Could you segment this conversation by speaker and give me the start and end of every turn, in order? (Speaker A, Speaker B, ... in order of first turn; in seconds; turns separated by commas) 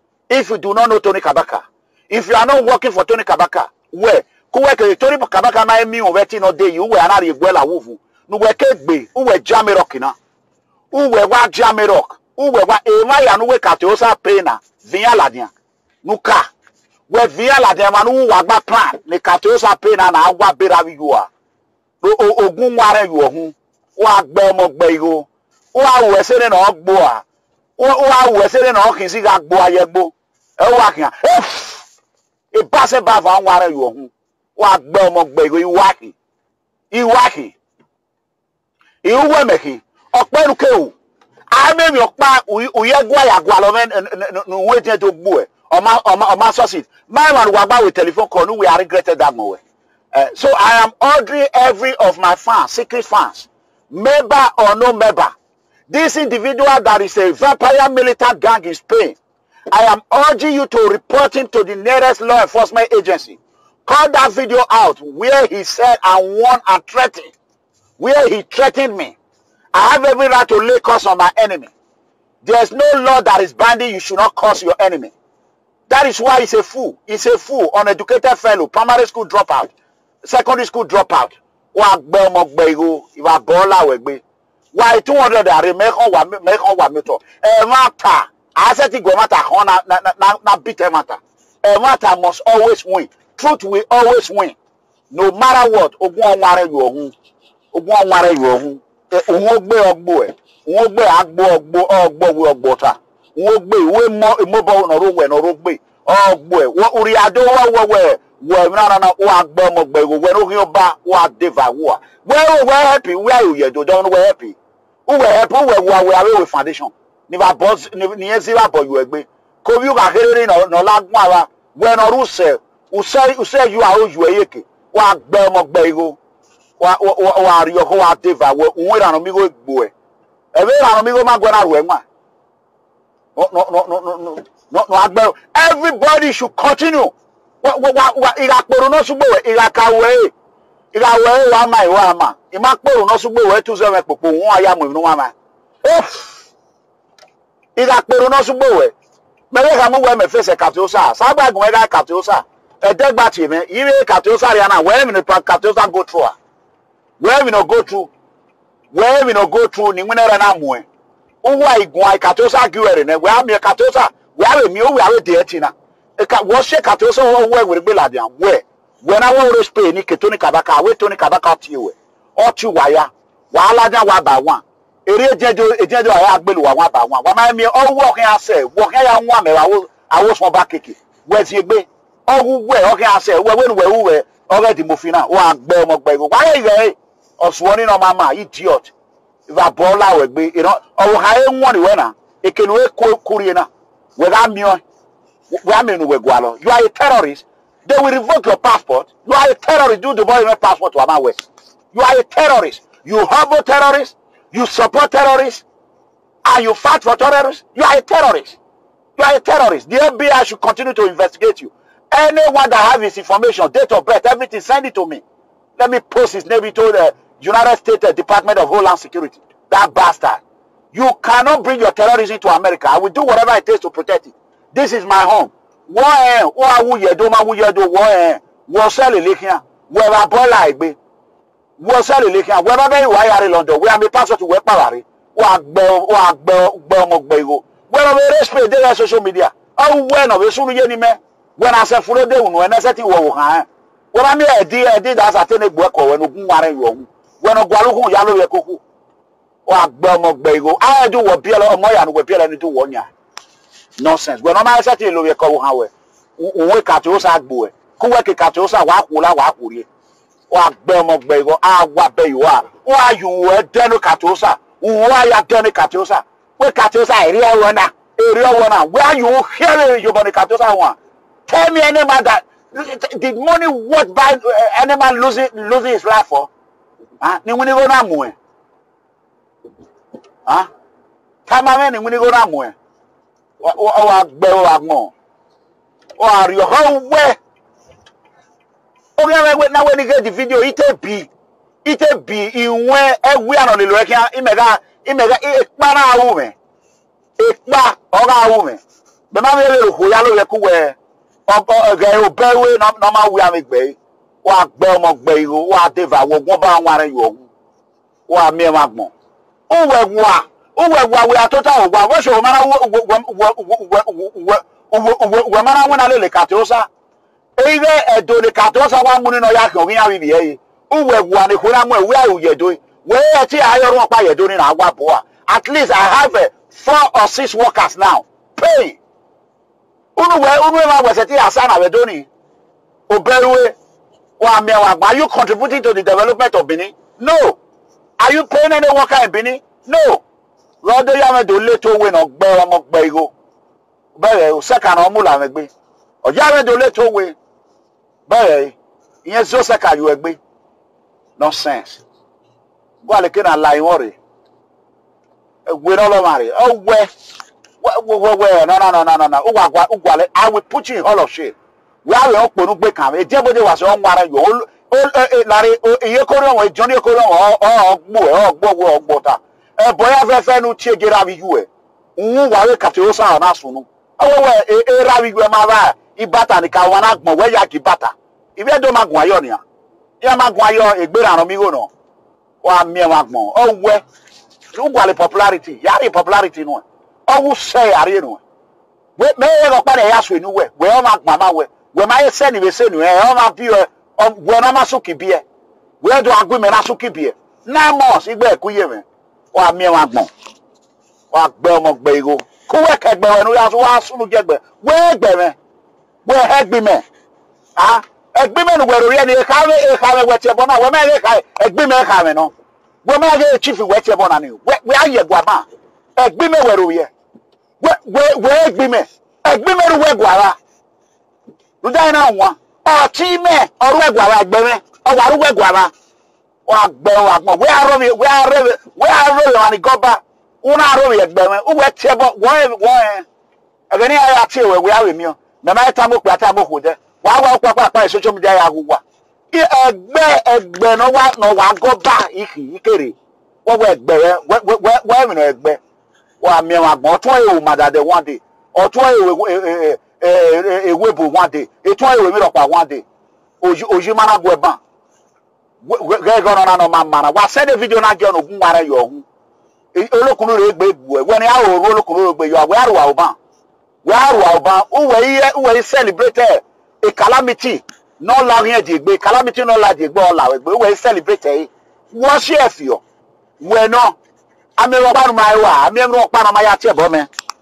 Speaker A: 0.3-10.1, Speaker A: 10.9-15.5, Speaker A: 16.0-16.5, Speaker A: 17.1-21.3, Speaker A: 22.0-27.2, Speaker A: 27.8-31.9, Speaker A: 32.5-36.1, Speaker A: 36.9-37.5, Speaker A: 39.0-40.9, Speaker A: 41.5-49.6, Speaker A: 50.1-55.3, Speaker A: 55.9-59.2, Speaker A: 59.7-67.3, Speaker A: 68.0-69.2, Speaker A: 69.7-71.7, Speaker A: 72.4-75.1, Speaker A: 75.9-84.2, Speaker A: 84.7-94.5, Speaker A: 95.1-97.1, Speaker A: 97.7-126.2, Speaker A: 126.8-129.9, Speaker A: 130.5-132.0, Speaker A: 133.3-140.3, Speaker A: 140.9-146.5, Speaker A: 147.8-148.9, Speaker A: 149.5-156.3, Speaker A: 157.2-158.1, Speaker A: 158.9-160.8, Speaker A: 161.4-188.9, Speaker A: 189.5-194.8, Speaker A: 195.5-205.6, Speaker A: 206.4-208.6, Speaker A: 209.2-215.2, Speaker A: 215.8-230.9, Speaker A: 231.8-248.8, Speaker A: 249.7-253.1, Speaker A: 254.0-259.9, Speaker A: 260.5-270.9, Speaker A: 271.5-276.5, Speaker A: 277.2-278.4, Speaker A: 281.4-282.8, Speaker A: 283.6-285.1, Speaker A: 286.2-287.4, Speaker A: 289.2-291.3, Speaker A: 291.8-296.5, Speaker A: 297.4-298.8, Speaker A: 299.3-300.9, Speaker A: 301.5-307.5, Speaker A: 308.3-309.1, Speaker A: 309.7-316.9, Speaker A: 317.6-329.0, Speaker A: 330.1-332.3, Speaker A: 333.1-333.7, Speaker A: 334.4-337.6, Speaker A: 338.2-340.2, Speaker A: 340.8-343.3, Speaker A: 344.1-345.7, Speaker A: 346.2-347.4, Speaker A: 348.3-350.4, Speaker A: 351.4-352.0, Speaker A: 353.0-354.1, Speaker A: 355.6-357.1, Speaker A: 357.8-379.6, Speaker A: 380.2-381.9, Speaker A: 382.6-384.0, Speaker A: 384.7-388.4, Speaker A: 389.2-395.4, Speaker A: 396.0-400.3, Speaker A: 401.3-405.6, Speaker A: 406.2-407.0, Speaker A: 407.8-412.5, Speaker A: 413.0-415.6, Speaker A: 416.2-417.1, Speaker A: 417.8-420.6, Speaker A: 421.8-425.9, Speaker A: 426.6-433.2, Speaker A: 433.9-445.8, Speaker A: 446.4-453.0, Speaker A: 453.6-454.8, Speaker A: 455.8-459.2, Speaker A: 459.9-463.4, Speaker A: 464.0-473.0, Speaker A: 473.6-474.1, Speaker A: 474.8-477.3